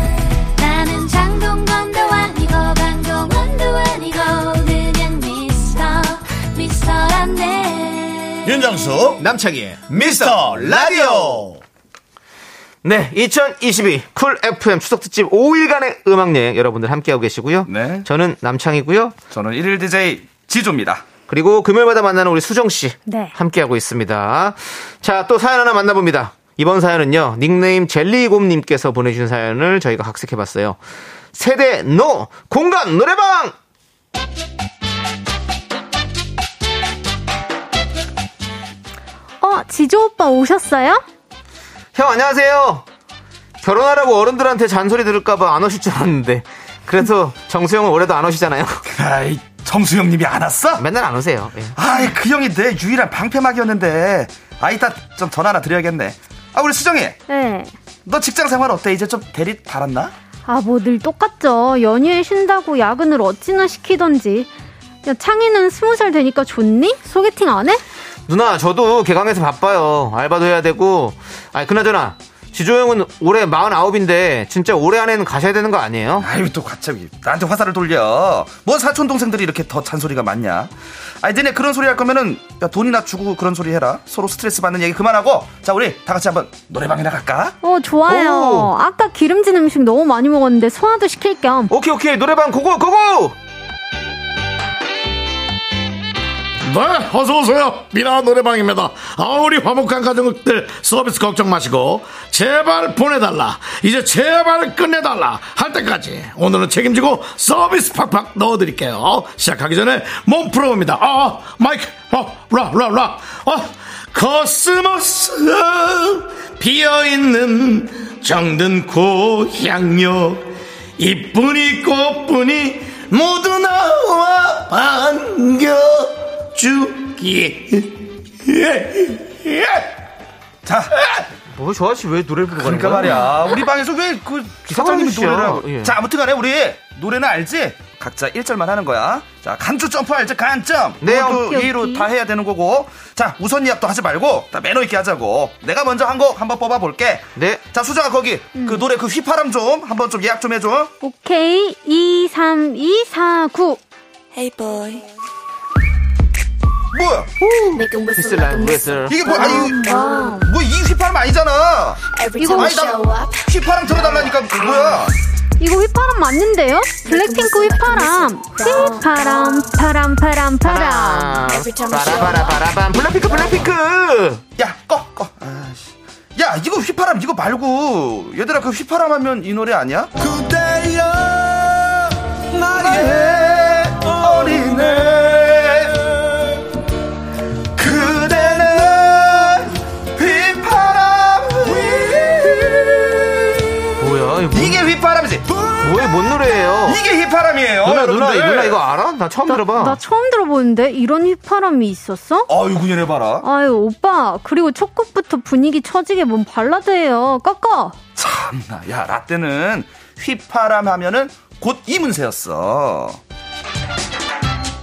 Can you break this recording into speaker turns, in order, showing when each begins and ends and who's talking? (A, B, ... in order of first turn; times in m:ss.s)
0:00.6-0:08.5 A
0:08.5-0:09.2 B
0:08.5-0:09.1 C
0:09.2-0:11.5 D
0:09.9-0:11.6 C
0:10.0-0:11.1 B
0:12.8-0:19.1 D
0:17.6-0:18.1 B
0:19.3-0:21.0 B
0:21.3-0:30.8 D
0:23.0-0:23.3 E
0:31.3-0:33.6 D
0:39.4-0:41.0 E
0:41.9-0:42.8 D
0:43.6-0:48.8 D
0:48.8-0:50.8 B
0:50.8-0:51.8 D
0:51.7-0:57.2 B
0:57.3-0:57.7 E
0:58.0-1:00.1 B
1:00.5-1:04.5 E
1:05.0-1:07.8 E
1:08.3-1:16.3 D
1:16.2-1:27.6 B
1:27.6-1:31.7 E
1:28.1-1:28.7 D
1:31.7-1:33.3 D
1:36.6-2:10.0 C
2:10.6-2:11.0 B
2:11.5-2:13.3 D
2:12.5-2:30.9 B
2:14.6-2:16.0 D
2:21.0-2:21.4 D
2:21.1-2:22.1 E
2:27.4-2:27.6 D
2:28.5-2:28.8 E
2:31.0-2:33.8 E
2:34.3-2:35.0 A
2:36.9-2:37.3 B
2:37.4-2:39.6 D
2:37.8-2:40.4 A
2:39.1-2:45.1 B
2:39.2-2:40.4 E
2:42.1-2:44.8 A
2:45.6-2:51.5 E
2:47.0-2:49.7 A
2:50.6-2:54.4 D
2:51.4-2:52.6 A
2:54.6-3:00.2 B
3:02.5-3:06.6 B
3:07.8-3:13.9 B
3:14.0-3:14.8 D
3:14.5-3:16.2 B
3:15.8-3:17.0 D
3:16.8-3:18.8 B
3:17.8-3:20.0 D
3:19.4-3:22.5 E
3:22.5-3:23.4 B
3:23.4-3:28.0 E
3:28.2-3:33.2 B